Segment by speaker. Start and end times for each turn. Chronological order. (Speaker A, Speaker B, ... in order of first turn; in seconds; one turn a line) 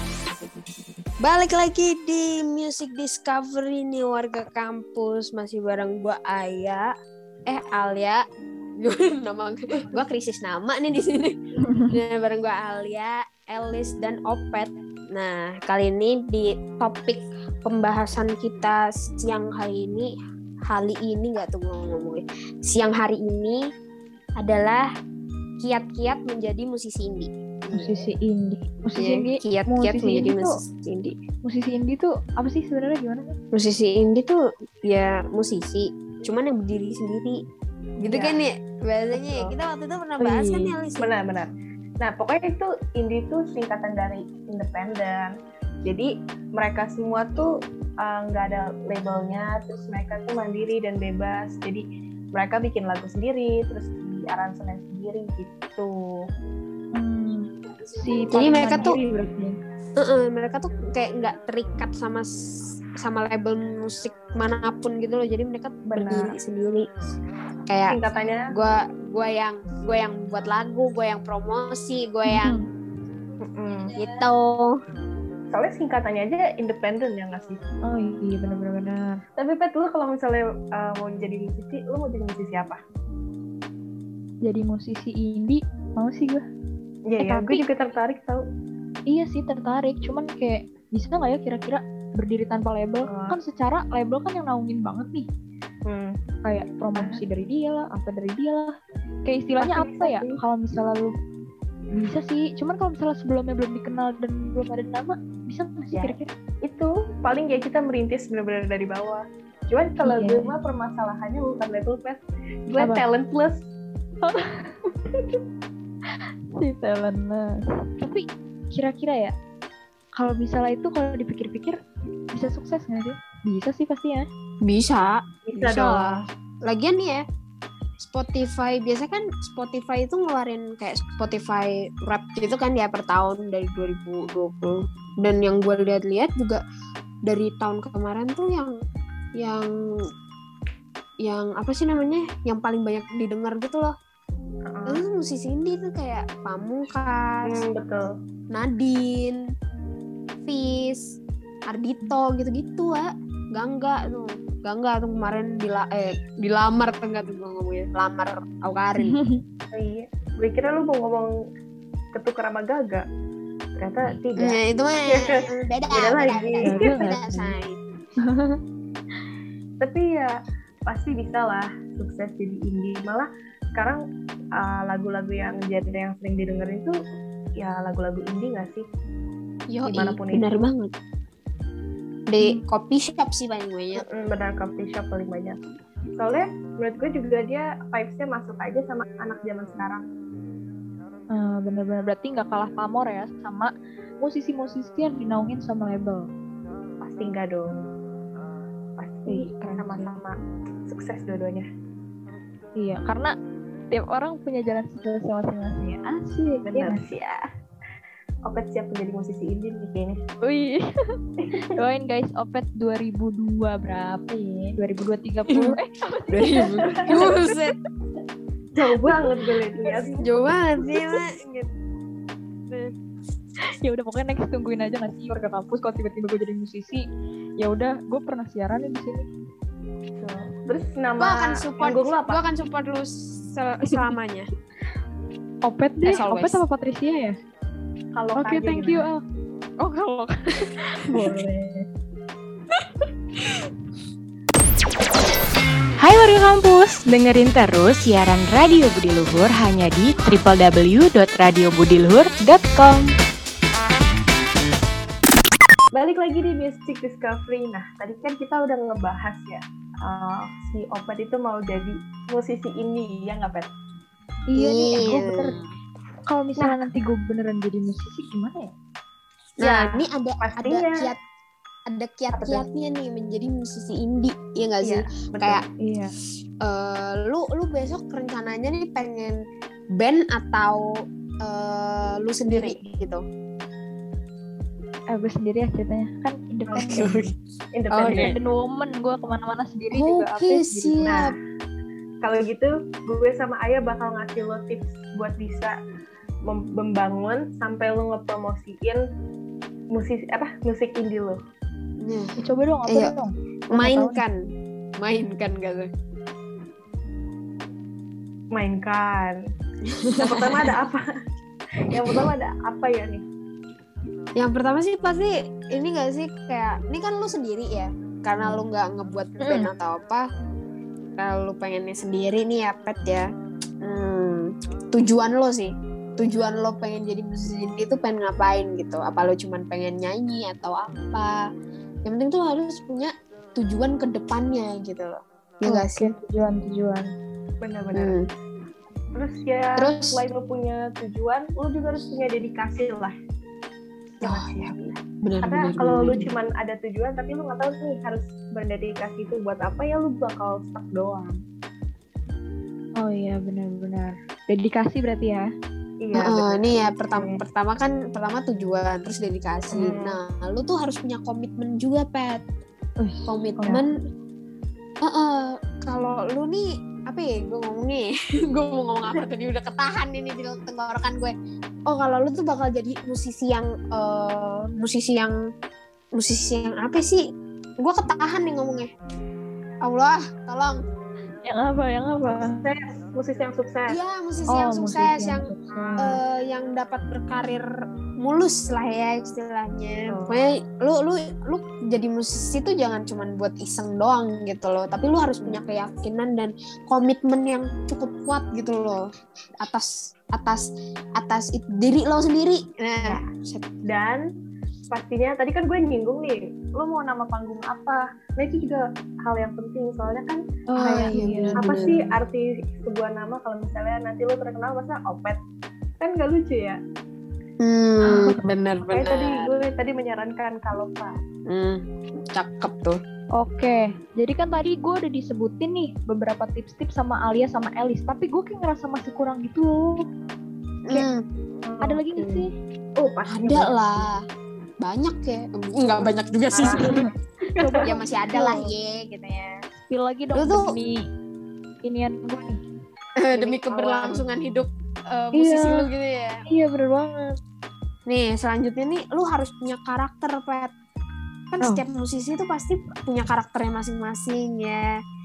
Speaker A: 1.2-6.9
Speaker A: 7.5-8.2
Speaker A: 8.8-11.3
Speaker B: 11.6-11.9
Speaker A: 11.9-20.1
Speaker A: 20.7-23.6
Speaker A: 24.4-24.9
Speaker A: 25.6-28.1
Speaker B: 27.7-30.6
Speaker A: 28.9-31.1
Speaker B: 31.4-33.4
Speaker A: 33.5-37.4
Speaker A: 38.0-41.1
Speaker C: 38.0-38.4
Speaker C: 39.1-39.5
Speaker B: 40.2-40.7
Speaker C: 41.0-47.5
Speaker C: 48.0-56.0
Speaker B: 56.9-59.5
Speaker A: 58.3-59.0
Speaker A: 60.0-62.3
Speaker A: 63.0-66.9
Speaker C: 65.9-66.3
Speaker A: 67.7-68.0
Speaker C: 67.9-68.5
Speaker A: 68.5-72.5
Speaker B: 72.3-72.6
Speaker C: 73.4-73.9
Speaker A: 73.9-74.8
Speaker C: 75.5-77.6
Speaker B: 77.8-79.2
Speaker C: 79.4-82.8
Speaker B: 84.4-86.4
Speaker C: 87.1-88.4
Speaker B: 87.2-87.7
Speaker B: 89.1-95.3
Speaker C: 93.1-93.4
Speaker C: 95.9-96.2
Speaker B: 96.4-98.7
Speaker C: 96.9-97.2
Speaker B: 99.2-101.1
Speaker C: 99.6-100.4
Speaker B: 101.9-106.3
Speaker C: 105.9-113.6
Speaker B: 110.0-110.5
Speaker B: 112.8-113.0
Speaker B: 114.2-114.7
Speaker B: 116.6-119.3
Speaker B: 120.2-121.8
Speaker B: 122.3-124.2
Speaker A: 124.6-127.2
Speaker C: 125.5-126.2
Speaker A: 128.0-136.6
Speaker A: 137.2-138.7
Speaker A: 139.4-140.0
Speaker A: 141.2-143.9
Speaker C: 144.7-145.0
Speaker A: 144.9-147.6
Speaker C: 147.5-148.1
Speaker A: 148.5-149.4
Speaker A: 150.4-159.2
Speaker B: 159.0-159.4
Speaker C: 159.7-161.3
Speaker C: 162.1-163.1
Speaker C: 163.8-165.4
Speaker A: 164.4-167.8
Speaker C: 165.9-167.0
Speaker B: 166.6-167.5
Speaker B: 168.2-168.6
Speaker C: 169.8-170.3
Speaker C: 170.9-174.0
Speaker C: 174.6-176.9
Speaker C: 177.6-178.8
Speaker A: 179.7-180.9
Speaker C: 179.8-180.5
Speaker A: 182.3-184.0
Speaker C: 184.0-185.6
Speaker C: 186.2-190.0
Speaker B: 191.3-196.3
Speaker C: 197.0-197.8
Speaker C: 199.0-200.4
Speaker B: 199.3-200.2
Speaker C: 200.9-201.7
Speaker B: 202.8-203.3
Speaker B: 203.9-207.0
Speaker C: 206.6-207.4
Speaker C: 208.4-210.2
Speaker B: 210.4-210.9
Speaker B: 211.7-217.7
Speaker A: 216.3-217.7
Speaker C: 218.8-220.5
Speaker B: 219.8-220.2
Speaker A: 220.2-221.3
Speaker B: 221.0-221.7
Speaker B: 223.8-227.0
Speaker B: 227.6-229.3
Speaker C: 230.2-232.4
Speaker A: 231.2-234.5
Speaker B: 233.8-234.1
Speaker B: 235.6-237.4
Speaker A: 236.0-236.6
Speaker C: 238.1-239.1
Speaker B: 238.3-239.2
Speaker B: 239.8-241.7
Speaker D: 246.0-253.0
Speaker C: 255.9-263.7
Speaker B: 264.5-265.6
Speaker A: 264.5-265.6
Speaker B: 266.3-268.7
Speaker C: 266.6-266.8
Speaker A: 269.6-271.2
Speaker C: 269.6-271.1
Speaker A: 271.9-275.6
Speaker C: 272.3-272.6
Speaker C: 274.8-275.6
Speaker B: 275.8-276.1
Speaker A: 276.6-279.3
Speaker A: 279.9-280.9
Speaker A: 281.4-283.2
Speaker B: 282.5-282.8
Speaker B: 285.1-287.2
Speaker C: 286.7-288.3
Speaker A: 286.8-287.3
Speaker A: 287.9-288.4
Speaker B: 288.1-291.1
Speaker A: 289.9-291.2
Speaker C: 291.0-291.3
Speaker C: 292.2-295.7
Speaker C: 296.5-299.0
Speaker C: 299.9-301.4
Speaker A: 302.0-302.3
Speaker B: 302.4-304.2
Speaker A: 302.9-303.1
Speaker A: 303.7-304.4
Speaker A: 305.0-305.9
Speaker C: 308.5-309.4
Speaker A: 309.9-310.6
Speaker C: 310.2-311.0
Speaker C: 311.9-313.2
Speaker A: 314.4-320.3
Speaker A: 321.2-323.2
Speaker A: 323.8-331.4
Speaker A: 332.0-336.1
Speaker B: 335.6-337.1
Speaker C: 337.6-338.2
Speaker A: 337.9-338.3
Speaker C: 339.1-343.1
Speaker A: 339.8-340.2
Speaker A: 344.2-344.5
Speaker C: 344.2-351.4
Speaker A: 345.2-346.3
Speaker B: 353.0-355.5
Speaker C: 356.0-357.4
Speaker A: 356.1-362.4
Speaker C: 359.7-360.2
Speaker B: 363.0-363.8
Speaker A: 363.3-363.9
Speaker A: 365.0-371.3
Speaker A: 371.9-375.3
Speaker A: 376.2-377.2
Speaker A: 377.8-378.9
Speaker A: 379.8-380.8
Speaker B: 381.4-382.6
Speaker C: 382.6-384.0
Speaker A: 383.9-387.6
Speaker B: 384.5-386.1
Speaker C: 385.7-386.2
Speaker A: 388.2-399.0
Speaker C: 390.1-390.4
Speaker A: 399.6-403.6
Speaker C: 403.9-404.2
Speaker C: 404.9-410.4
Speaker B: 410.7-411.7
Speaker A: 410.7-412.1
Speaker C: 411.6-415.4
Speaker C: 416.0-416.8
Speaker A: 417.6-419.5
Speaker B: 418.0-418.4
Speaker C: 418.9-421.1
Speaker A: 421.5-421.8
Speaker A: 422.3-423.0
Speaker B: 423.4-430.0
Speaker A: 430.9-431.2
Speaker C: 431.6-432.5
Speaker B: 431.8-432.5
Speaker C: 433.0-434.1
Speaker A: 433.3-434.2
Speaker A: 434.8-437.0
Speaker C: 436.0-437.8
Speaker B: 436.6-437.0
Speaker B: 437.6-438.7
Speaker A: 437.8-439.5
Speaker B: 439.9-441.0
Speaker A: 440.3-440.7
Speaker B: 441.8-442.6
Speaker A: 443.2-446.4
Speaker C: 443.3-444.2
Speaker B: 445.3-445.9
Speaker B: 446.5-447.3
Speaker A: 448.1-450.7
Speaker A: 451.5-454.8